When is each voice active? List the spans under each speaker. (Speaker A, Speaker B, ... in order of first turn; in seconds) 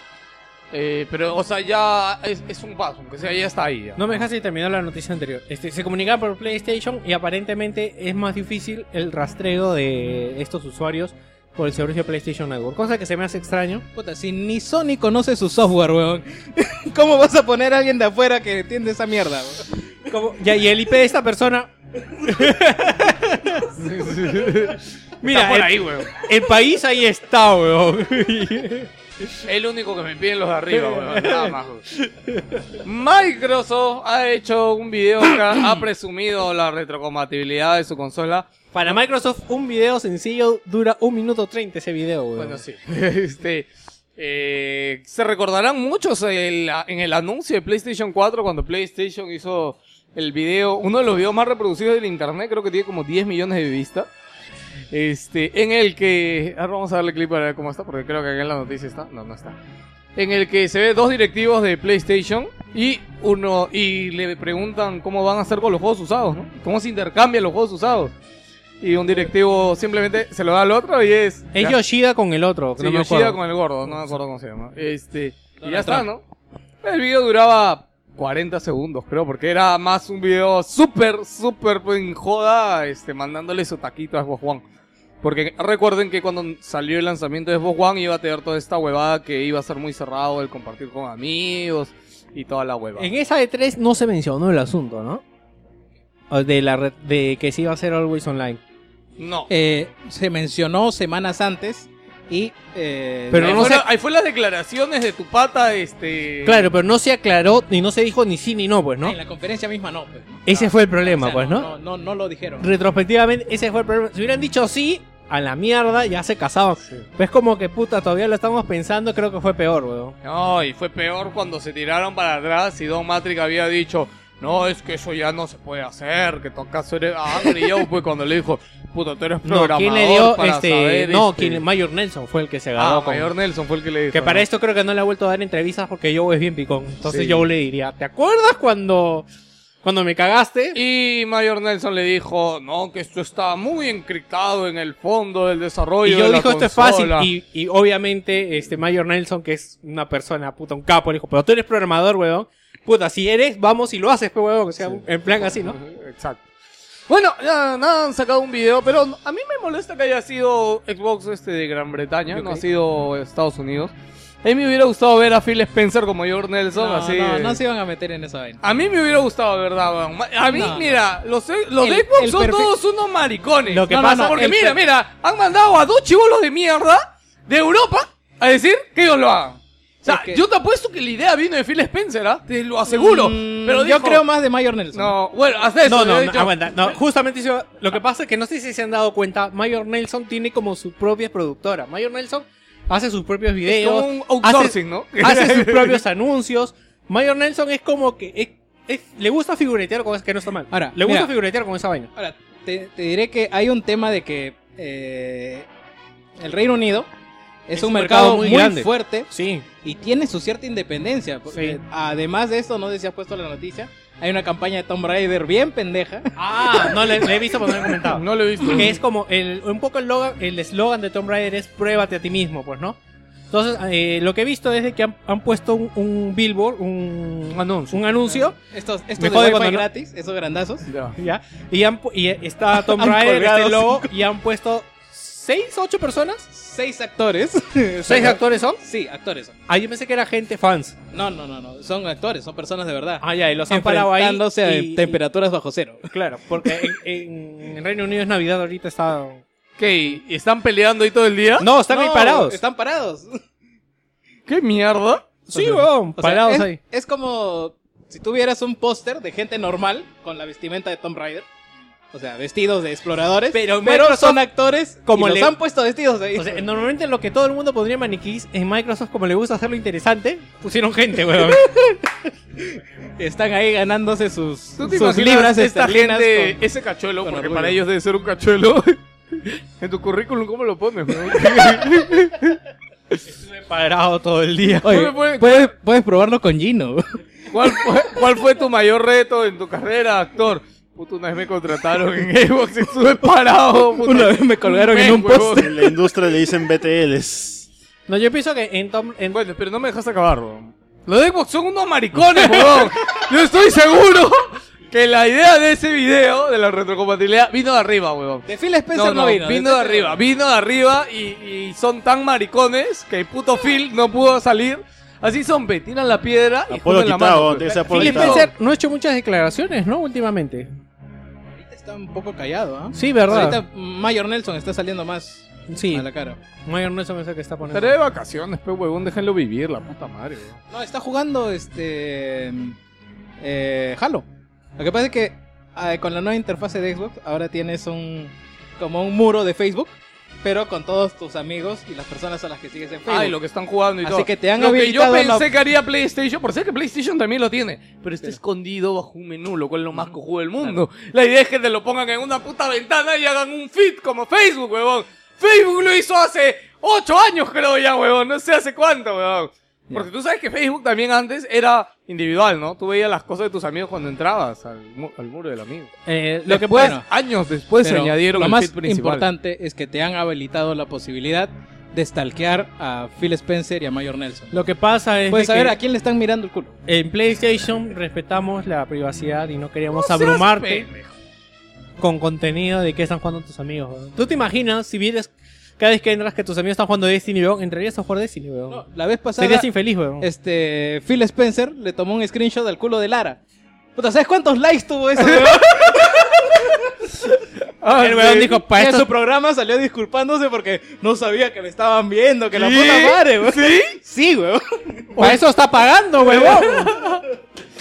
Speaker A: 0.7-4.2, 23.8-26.1, 29.4-31.8, 32.8-38.5, 42.4-54.1, 54.9-59.5, 60.1-68.1, 68.8-71.8, 72.8-76.2, 76.8-84.6, 85.2-93.1, 99.2-99.5, 103.4-106.7, 120.2-131.6, 132.8-134.4, 137.0-137.4, 140.7-147.3, 154.8-156.4, 157.1-163.9, 164.4-167.6, 168.6-184.2, 184.9-186.5, 193.6-196.0, 218.1-218.9, 227.5-228.1, 230.9-231.1, 249.8-251.7, 254.5-255.2, 274.8-282.6, 284.8-285.7, 287.5-295.7, 299.3-318.5, 327.7-330.6, 343.1-365.9, 366.5-369.3, 379.9-381.1, 395.2-396.3, 397.8-398.5, 402.5-404.0, 406.3-407.2
Speaker B: 4.0-13.8, 20.1-23.9, 25.2-28.9, 30.7-32.7, 38.7-42.6, 71.5-74.1, 93.0-95.2, 96.3-98.6, 103.3-103.8, 106.4-109.2, 110.5-111.7, 112.6-120.2, 129.4-133.3, 134.1-139.2, 139.8-140.8, 146.0-155.8, 173.7-174.5, 185.8-202.1, 207.7-209.7, 211.5-211.8, 216.4-223.0, 223.5-228.6, 229.2-229.9, 231.2-236.5, 238.0-238.8, 239.7-240.9, 243.2-245.2, 246.1-249.4, 251.6-252.6, 255.5-256.8, 263.5-264.4, 265.1-265.5, 266.4-272.0, 283.3-285.1, 298.1-299.4, 317.9-320.7, 322.9-323.6, 325.7-326.1, 326.6-328.0, 366.1-366.9, 374.5-375.8, 376.9-380.9, 382.0-388.8, 389.4-390.3, 398.0-399.1, 405.1-407.0
Speaker C: 13.9-19.7, 75.6-76.0, 99.5-103.7, 109.0-112.7, 162.3-162.6, 166.7-168.6, 170.5-170.9, 171.8-172.7, 173.9-174.8, 180.1-180.4, 182.9-185.1, 200.7-201.3, 202.2-205.7, 206.4-207.1, 207.7-209.3, 209.8-217.2, 228.6-230.9, 232.7-234.1, 236.5-239.6, 241.1-246.1, 246.6-246.9, 251.9-253.4, 255.5-261.4, 262.1-266.6, 272.7-276.6, 277.2-277.8, 284.8-287.0, 294.0-295.9, 308.5-310.2, 317.6-318.1, 321.5-326.4, 330.7-332.8, 333.4-334.2, 334.8-343.4, 344.0-345.5, 350.0-350.8, 366.7-367.1, 367.8-374.5, 375.3-376.8, 388.7-393.4, 393.9-396.9, 398.3-405.3
Speaker D: 295.6-297.7, 316.7-318.4